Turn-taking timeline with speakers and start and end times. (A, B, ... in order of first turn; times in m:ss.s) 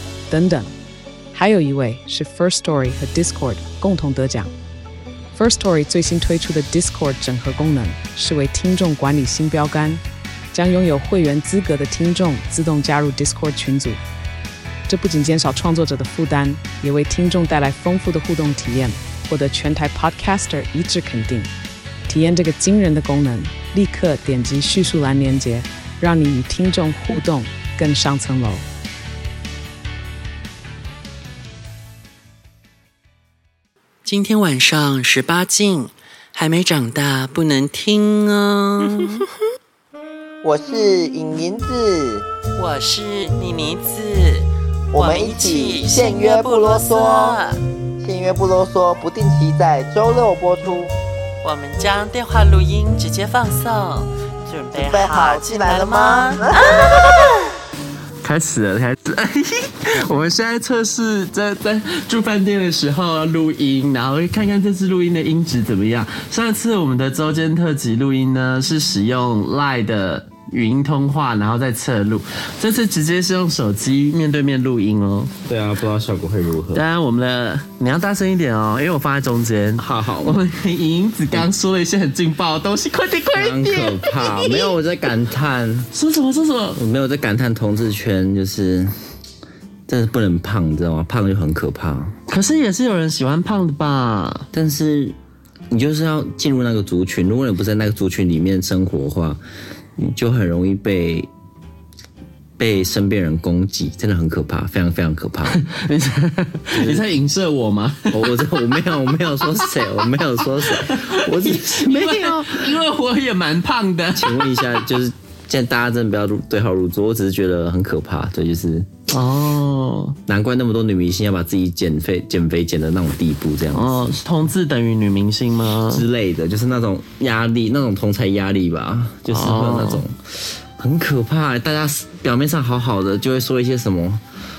0:00.3-0:00.7 A
0:01.3-0:04.5 A
0:05.3-0:10.0 A
0:10.5-0:14.0 A
0:14.9-0:21.5 A
0:22.1-0:28.6 A
0:34.0-0:39.3 B
0:40.4-0:42.3 C
0:42.6-0:47.6 B
0:44.9-0:47.4 C
0:48.0-0:50.9 C
0:51.4-0:56.9 B
0:51.6-0:52.0 D
0:54.7-0:56.8 C
0:54.8-0:55.9 D
0:56.5-0:57.5 D
0:58.2-1:15.3 D
1:15.4-1:16.8 E
1:16.7-1:24.7 D
1:19.8-1:20.4 E
1:23.3-1:25.9 E
1:25.9-1:26.8 D
1:26.8-1:28.9 E
1:29.9-1:32.1 E
1:32.3-1:34.5 D
1:34.5-1:35.2 E
1:35.7-1:39.4 E
1:40.0-1:41.3 E
1:42.6-1:45.6 E
1:45.5-1:48.2 D
1:46.7-1:47.0 E
1:48.1-1:52.8 E
1:50.6-1:54.9 D
1:54.2-1:58.9 E
1:59.1-2:00.2 D
2:00.3-2:04.0 E
2:03.7-2:06.0 D
2:05.9-2:14.2 E
2:09.3-2:10.0 D